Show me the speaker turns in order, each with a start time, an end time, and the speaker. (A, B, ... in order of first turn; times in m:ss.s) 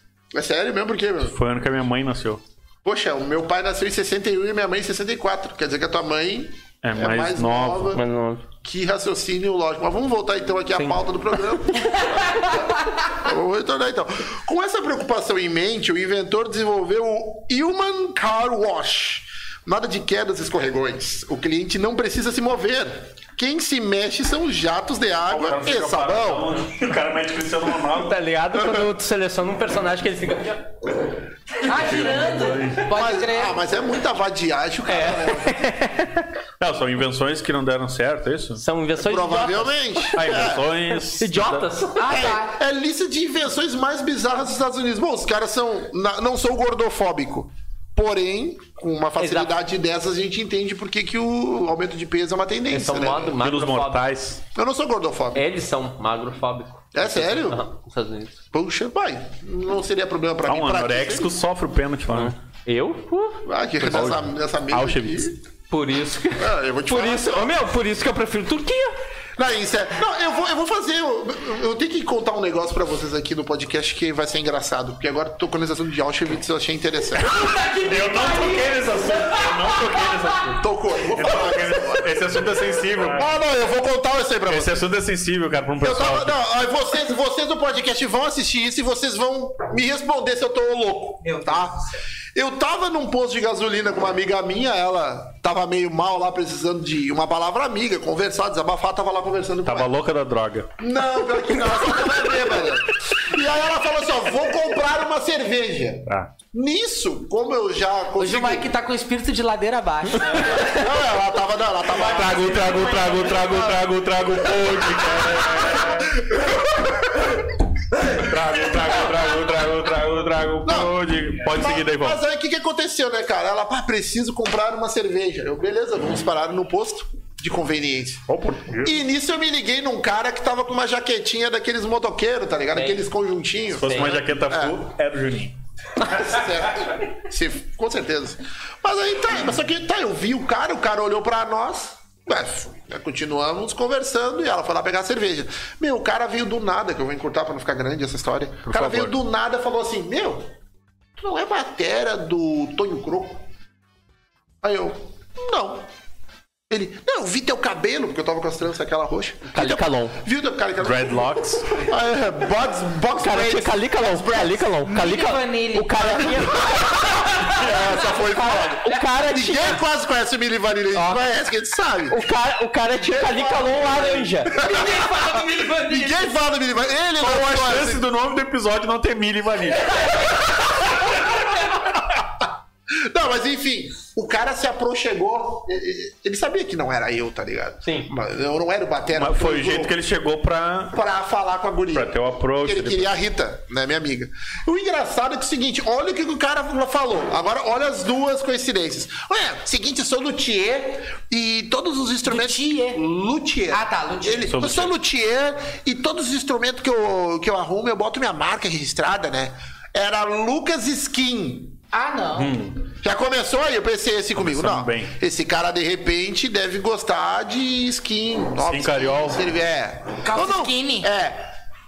0:00.3-0:01.4 A
0:01.3-0:02.4 B
0:02.8-0:08.0 A
0:06.8-0:07.9 B
0:07.9-0:08.4 C
0:08.6-0:26.4 A
0:12.0-0:12.8 D
0:25.3-0:28.2 B
0:27.9-0:30.7 C
0:28.5-0:28.9 A
0:31.6-0:33.5 D
0:31.6-0:32.8 B
0:32.9-0:35.7 A
0:34.9-0:36.2 C
0:36.6-0:38.6 B
0:38.6-0:40.2 C
0:39.0-0:40.7 A
0:40.1-0:41.7 B
0:41.2-0:42.2 C
0:42.0-0:42.5 D
0:42.1-0:53.3 A
0:49.2-0:49.5 C
0:52.7-0:54.0 C
0:53.4-0:54.4 B
0:54.5-0:55.4 A
0:55.3-0:58.4 C
0:56.9-0:57.6 A
0:58.5-1:01.3 A
1:00.5-1:02.3 B
1:02.1-1:03.4 C
1:03.4-1:05.3 A
1:03.8-1:05.3 B
1:05.7-1:08.9 C
1:06.4-1:07.5 A
1:09.4-1:17.3 A
1:17.3-1:23.3 B
1:17.3-1:20.1 D
1:17.5-1:18.8 C
1:20.6-1:24.8 A
1:24.5-1:26.4 B
1:25.8-1:31.8 A
1:31.2-1:31.8 D
1:32.3-1:39.9 A
1:39.6-1:40.7 B
1:40.8-1:48.7 A
1:48.2-1:50.8 D
1:50.4-1:53.8 A
1:51.9-1:56.2 B
1:55.2-1:57.3 A
1:58.0-2:02.2 B
2:00.6-2:08.2 A
2:08.3-2:09.0 B
2:08.8-2:14.8 A
2:12.7-2:13.0 C
2:13.8-2:15.5 B
2:13.8-2:14.1 C
2:16.0-2:30.5 A
2:28.6-2:29.2 B
2:31.2-2:33.4 A
2:34.6-2:35.8 A
2:36.7-2:44.8 A
2:39.5-2:40.2 C
2:40.8-2:41.8 B
2:43.2-2:49.8 C
2:44.8-2:46.6 D
2:46.5-2:52.2 A
2:50.9-2:51.2 C
2:52.1-2:54.6 C
2:53.0-2:58.0 A
2:54.5-2:56.3 D
2:57.2-3:00.1 B
3:00.3-3:02.2 A
3:02.9-3:09.9 A
3:07.8-3:08.1 C
3:09.2-3:11.0 B
3:10.9-3:31.8 A
3:11.9-3:13.1 B
3:22.2-3:23.0 D
3:23.7-3:24.5 D
3:24.5-3:24.9 B
3:31.9-3:32.6 D
3:32.4-3:32.8 B
3:33.0-3:41.5 A
3:34.4-3:35.1 B
3:38.6-3:39.4 B
3:40.2-3:41.1 D